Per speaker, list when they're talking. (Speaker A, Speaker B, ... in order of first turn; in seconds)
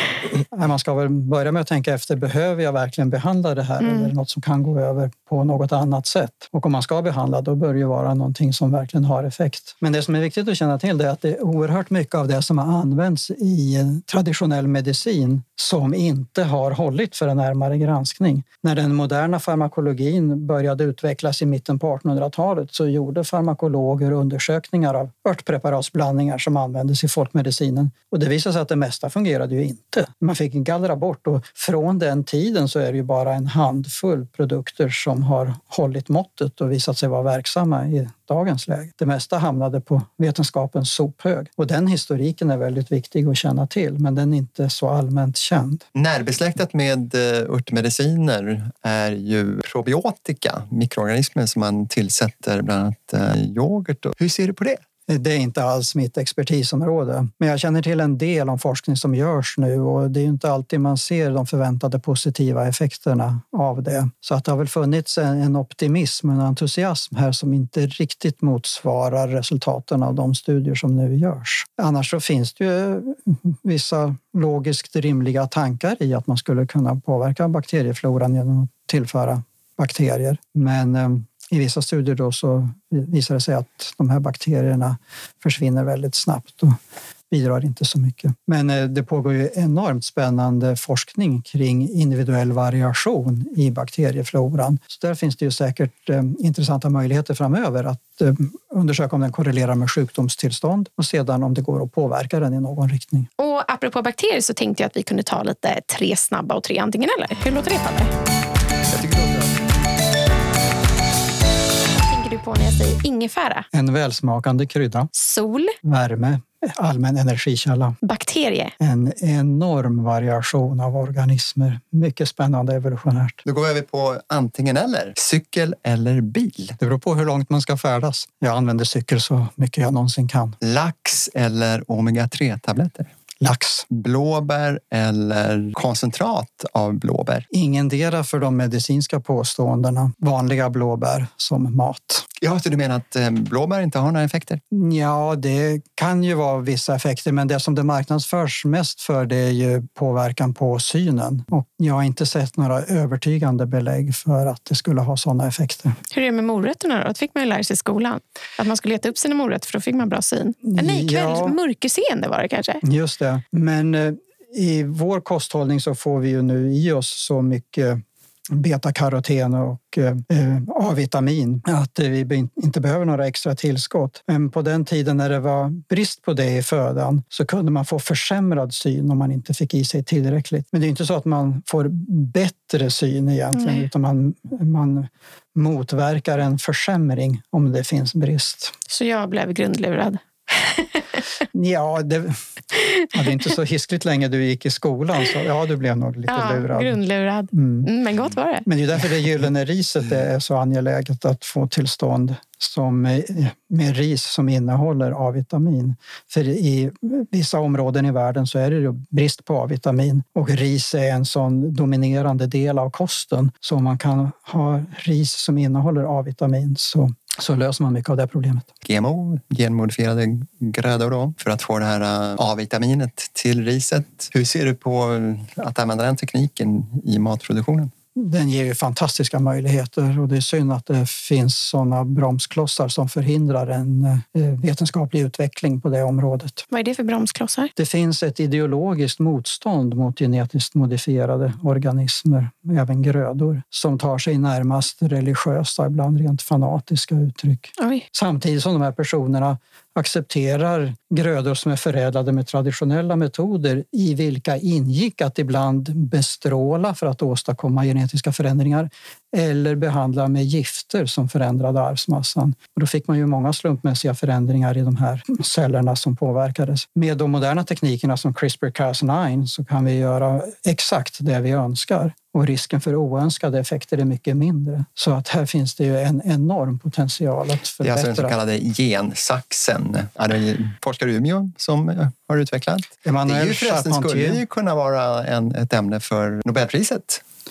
Speaker A: 0.5-45.8, 55.1-86.8, 87.3-103.3, 113.7-115.1, 115.8-118.0, 118.8-123.4, 126.8-130.6, 133.4-133.9, 137.5-142.3, 144.7-156.0, 160.7-161.6, 162.8-188.7, 191.5-192.4, 193.1-197.0, 197.5-197.9, 198.6-218.7, 228.2-236.6, 237.8-278.4, 283.0-284.4
Speaker B: 3.8-4.1, 103.4-108.1, 112.0-113.7, 115.1-115.8, 118.0-118.7, 156.1-162.8, 183.6-183.8, 188.9-191.1, 196.3-198.7, 236.7-237.7, 247.8-248.1
Speaker C: 46.0-54.8, 108.9-109.6, 123.4-126.8, 130.6-133.1, 133.9-137.5, 142.4-144.6, 218.8-227.9, 277.8-287.2